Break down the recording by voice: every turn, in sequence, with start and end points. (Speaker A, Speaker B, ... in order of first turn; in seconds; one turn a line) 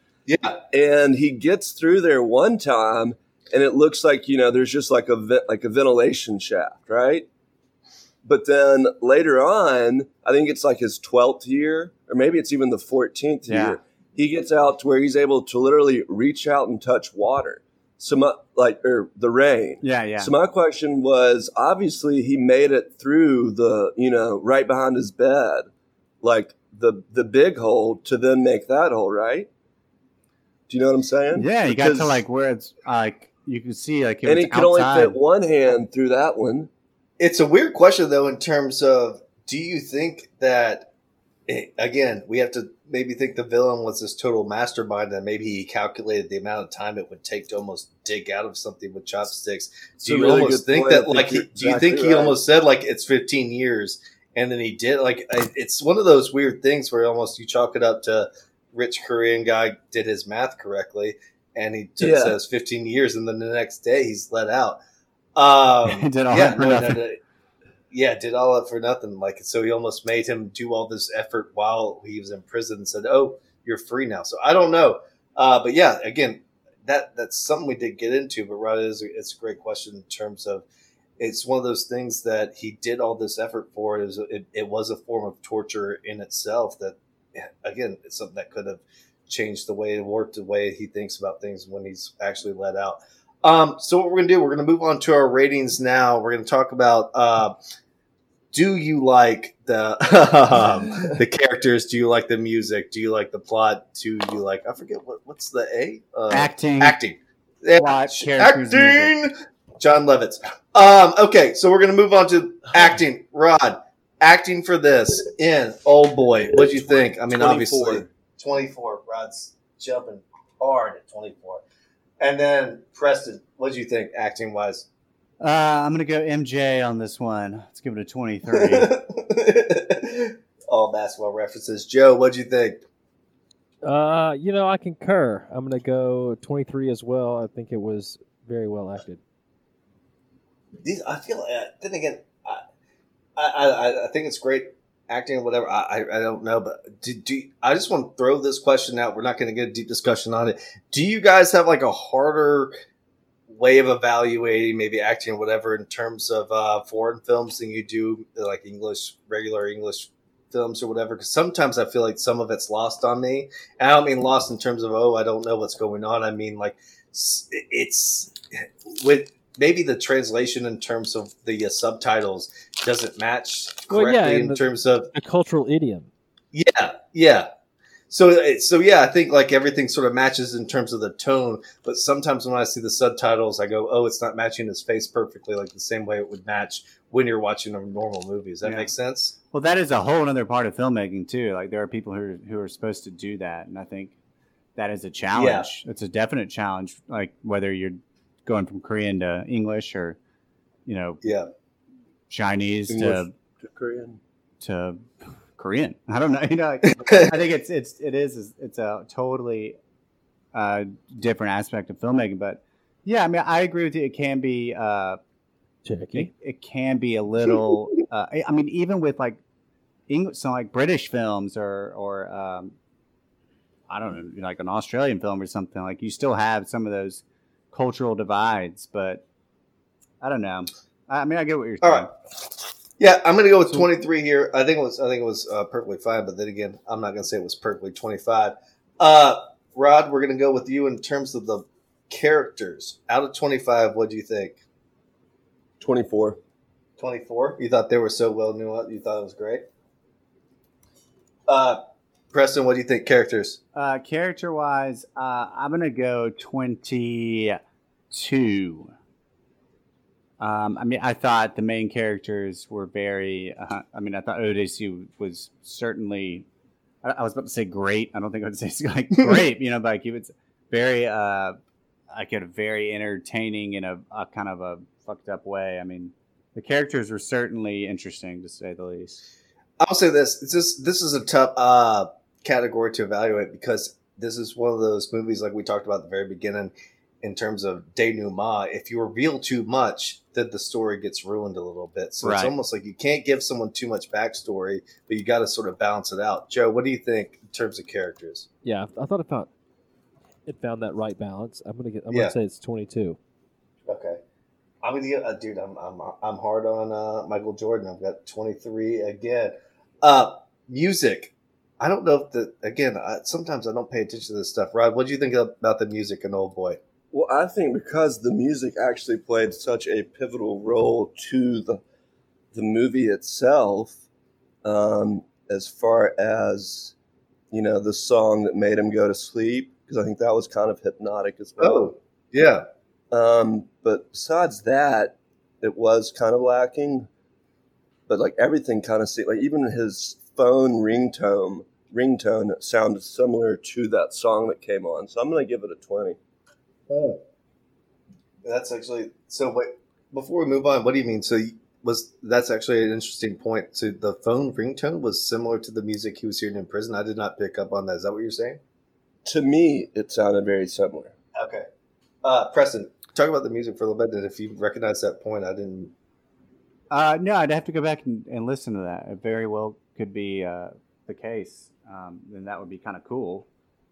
Speaker A: 0.3-0.6
Speaker B: 0.7-7.3
Speaker B: 8.2-25.7
Speaker C: 13.5-13.8
Speaker C: 19.8-20.3
Speaker B: 26.2-29.5
Speaker B: 30.7-32.2
Speaker C: 31.3-35.2
Speaker B: 34.2-36.7
Speaker A: 37.2-40.9
Speaker A: 41.5-64.8
Speaker B: 50.0-52.4
Speaker B: 62.0-62.4
Speaker A: 65.4-67.2
Speaker C: 65.9-67.0
Speaker A: 67.9-80.7
Speaker A: 81.2-97.6
Speaker A: 98.5-121.6
Speaker C: 106.3-107.0
Speaker C: 107.8-109.1
Speaker B: 117.3-118.1
Speaker A: 122.2-124.9
Speaker C: 125.4-128.9
Speaker A: 128.5-132.8
Speaker D: 133.8-139.2
Speaker A: 140.8-142.6
Speaker A: 143.4-152.8
Speaker A: 153.5-168.3
Speaker A: 168.9-175.1
Speaker D: 173.9-176.1
Speaker A: 176.5-177.5
Speaker A: 178.1-189.3
Speaker C: 188.6-188.9
Speaker C: 189.5-194.2
Speaker C: 194.8-200.2
Speaker A: 195.3-195.7
Speaker C: 200.9-201.2
Speaker A: 201.2-201.5
Speaker C: 202.3-203.3
Speaker B: 202.9-204.2
Speaker C: 204.6-209.8
Speaker A: 207.0-207.3
Speaker C: 210.5-215.2
Speaker D: 215.8-216.3
Speaker C: 216.1-219.4
Speaker C: 220.1-222.7
Speaker C: 223.9-229.2
Speaker C: 230.2-232.1
Speaker A: 231.8-232.1
Speaker A: 233.0-244.6
Speaker B: 245.8-246.4
Speaker A: 247.0-249.7
Speaker A: 251.5-251.8
Speaker A: 252.3-253.6
Speaker C: 253.8-257.6
Speaker C: 258.1-258.9
Speaker C: 260.4-266.5
Speaker C: 267.0-271.6
Speaker C: 272.1-279.2
Speaker A: 279.8-298.5
Speaker C: 292.2-292.5
Speaker D: 298.6-299.5
Speaker D: 300.5-303.2
Speaker A: 302.1-302.4
Speaker A: 303.9-304.2
Speaker A: 304.8-316.8
Speaker B: 317.1-321.8
Speaker B: 322.5-324.0
Speaker B: 324.6-326.9
Speaker B: 327.5-331.9
Speaker A: 331.6-332.6
Speaker B: 333.1-337.1
Speaker B: 338.1-346.2
Speaker A: 346.9-347.2
Speaker A: 348.4-358.6
Speaker B: 359.2-361.1
Speaker A: 361.4-361.7
Speaker A: 362.2-365.9
Speaker C: 366.9-373.5